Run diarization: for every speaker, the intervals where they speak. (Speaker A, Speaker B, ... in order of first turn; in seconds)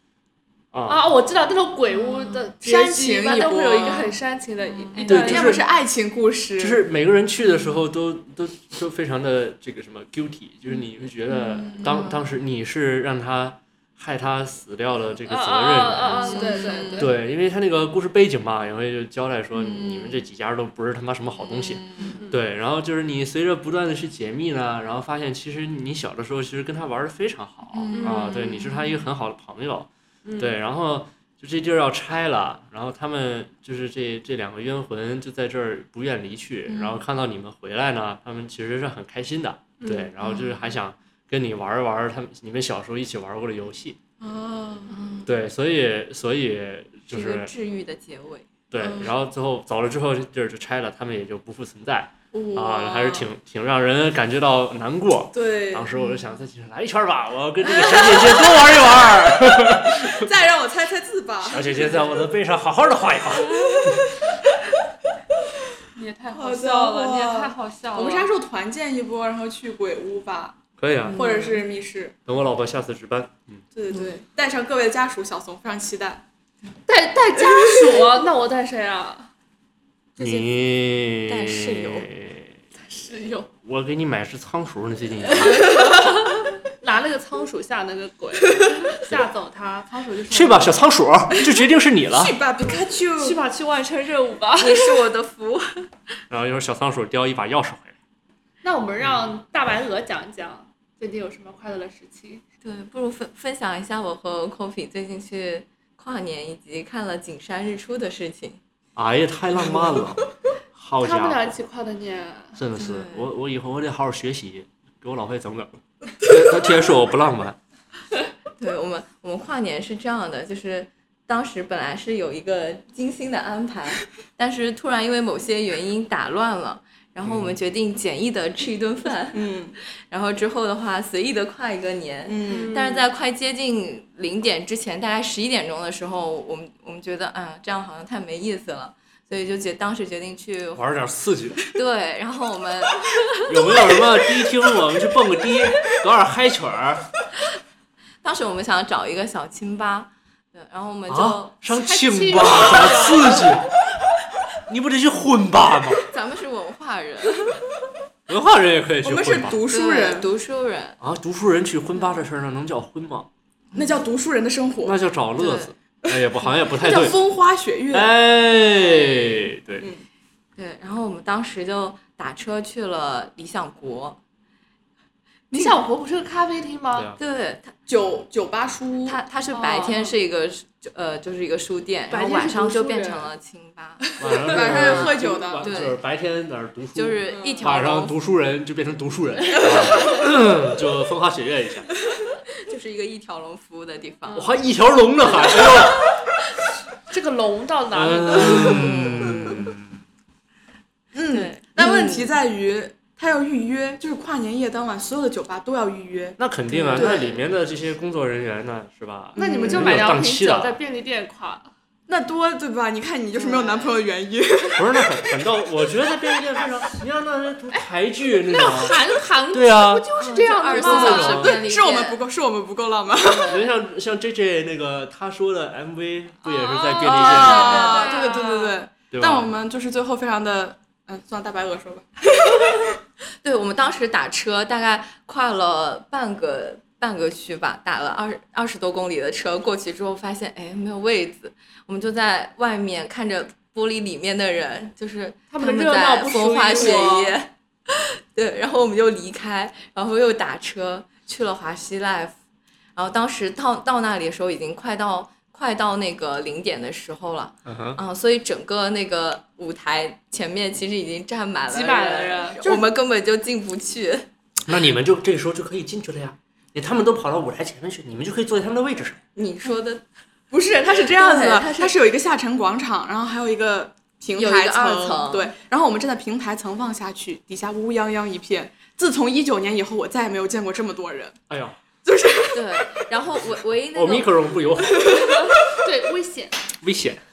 Speaker A: 0.7-1.0, 5.0-5.7, 6.6-44.0, 45.2-47.5, 48.7-60.3, 61.5-64.1, 70.8-71.2, 72.3-73.6, 80.2-82.5, 83.6-85.7, 90.3-92.4, 96.3-98.0, 109.0-110.2, 110.7-111.5, 112.6-117.6, 127.2-127.6, 140.8-141.6, 143.5-147.1, 151.1-153.7, 154.7-156.0, 158.3-159.6, 161.0-163.3, 164.8-167.2, 167.9-169.9, 176.9-177.2, 184.2-191.9, 194.3-196.0, 197.9-200.0, 206.4-210.8, 214.8-220.1, 220.7-221.6, 223.5-227.9, 229.1-229.5, 257.7-258.0, 264.7-269.2, 281.5-281.8, 283.9-285.2, 286.8-287.2
Speaker B: 0.9-5.7, 15.3-17.1, 22.1-22.4, 27.9-28.3, 30.2-30.6, 39.8-40.1, 65.9-68.3, 76.9-79.3, 82.8-83.5, 85.4-90.7, 93.2-95.0, 98.6-102.4, 111.0-112.6, 132.5-133.0, 151.7-153.5, 175.5-177.1, 179.5-180.2, 182.1-183.3, 187.3-187.6, 197.1-198.9, 209.4-211.7, 217.7-221.6, 226.4-228.7, 245.5-247.3, 261.7-262.9, 285.1-286.6
Speaker C: 2.6-4.2, 4.9-6.8, 11.3-12.2, 16.3-17.1, 19.6-20.2, 21.4-22.2, 27.7-29.0, 36.7-37.0, 44.2-45.0, 48.8-49.1, 52.3-53.3, 55.3-56.0, 57.6-62.3, 63.4-64.7, 66.3-72.2, 73.7-76.2, 77.4-78.0, 80.2-80.4, 85.8-86.1, 92.1-93.4, 109.6-110.3, 116.3-116.8, 129.3-129.8, 132.3-132.8, 159.0-160.3, 163.7-165.0, 166.7-168.2, 169.8-170.1, 177.9-179.2, 184.3-185.8, 201.1-206.4, 206.9-207.3, 209.4-210.1, 212.1-215.4, 220.7-223.6, 227.0-232.9, 246.8-247.2, 270.5-281.4, 282.0-283.1, 285.0-285.4
Speaker D: 5.0-5.2, 16.3-16.9, 44.9-45.2, 47.1-48.5, 56.0-56.2, 71.0-71.6, 73.9-74.2, 81.3-82.0, 94.6-95.9, 102.6-108.6, 112.8-113.3, 118.6-129.5, 130.1-140.8, 141.7-143.7, 148.2-151.6, 156.1-157.6, 159.7-161.0, 163.7-164.0, 165.4-165.7, 168.6-169.4, 170.6-174.2, 177.2-177.8, 179.1-186.0, 186.9-188.2, 189.6-190.2, 192.6-194.6, 198.4-199.7, 201.3-202.3, 206.7-207.4, 213.3-214.0, 220.2-222.2, 223.2-223.6, 227.3-228.7, 233.4-252.3, 252.9-264.3, 269.4-270.0, 271.1-271.9, 274.4-275.5, 282.5-284.4